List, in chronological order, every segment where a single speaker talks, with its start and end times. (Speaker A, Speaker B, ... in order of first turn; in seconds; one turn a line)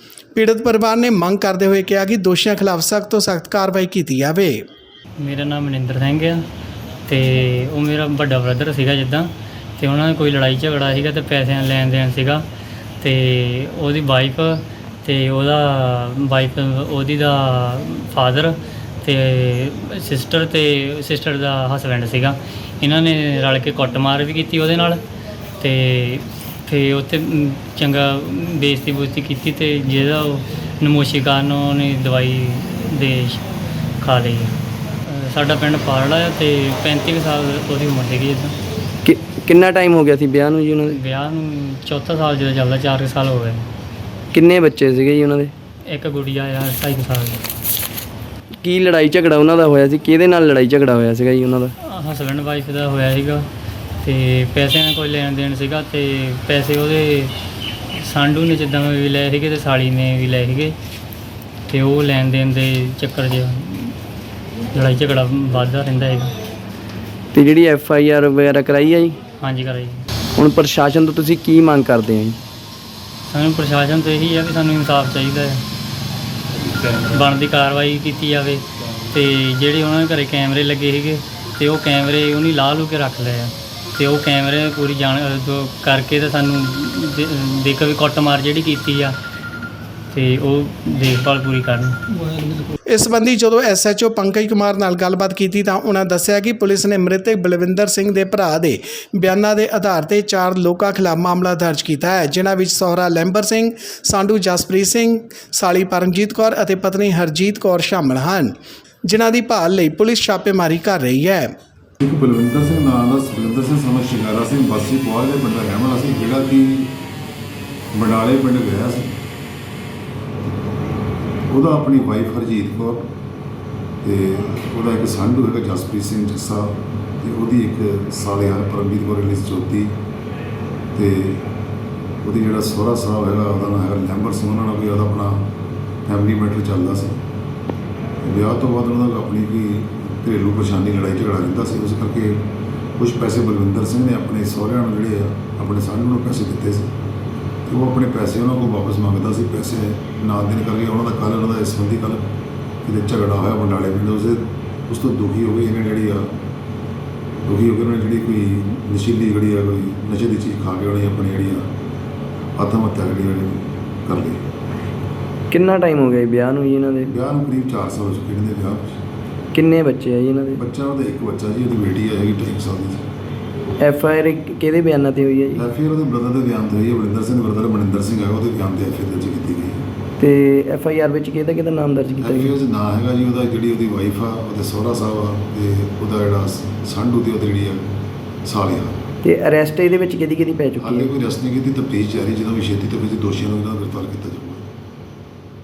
Speaker A: 0.3-4.6
Speaker B: 5.2-6.4
Speaker B: 7.0-12.4
Speaker B: 13.0-25.0
Speaker B: 25.6-33.4
Speaker B: 34.0-38.5
Speaker C: 39.0-41.0
Speaker B: 40.9-43.6
Speaker C: 44.3-45.5
Speaker B: 45.8-47.4
Speaker C: 48.6-51.7
Speaker B: 51.8-53.5
Speaker B: 54.0-57.3
Speaker B: 57.9-60.8
Speaker B: 61.7-64.0
Speaker B: 64.7-66.4
Speaker C: 67.3-69.2
Speaker B: 69.4-70.0
Speaker C: 70.3-72.4
Speaker B: 73.3-75.6
Speaker B: 76.9-89.2
Speaker B: 90.1-92.0
Speaker A: 92.9-108.5
Speaker A: 109.0-111.5
Speaker D: 112.0-117.0
Speaker D: 117.9-119.2
Speaker D: 121.5-123.1
Speaker D: 124.0-129.9
Speaker D: 130.9-131.4
Speaker D: 132.2-135.5
Speaker D: 136.1-137.2
Speaker D: 138.2-142.5
Speaker D: 143.0-146.9
Speaker D: 147.7-152.3
Speaker D: 152.8-156.3
Speaker D: 157.4-161.7
Speaker D: 162.6-164.4
Speaker C: 165.5-167.1
Speaker D: 167.1-168.9
Speaker C: 169.5-170.6
Speaker D: 170.6-173.1
Speaker C: 173.8-175.6
Speaker D: 175.6-179.8
Speaker C: 180.2-182.5
Speaker D: 182.2-187.9
Speaker D: 188.4-189.0
Speaker C: 189.2-191.1
Speaker D: 190.8-194.7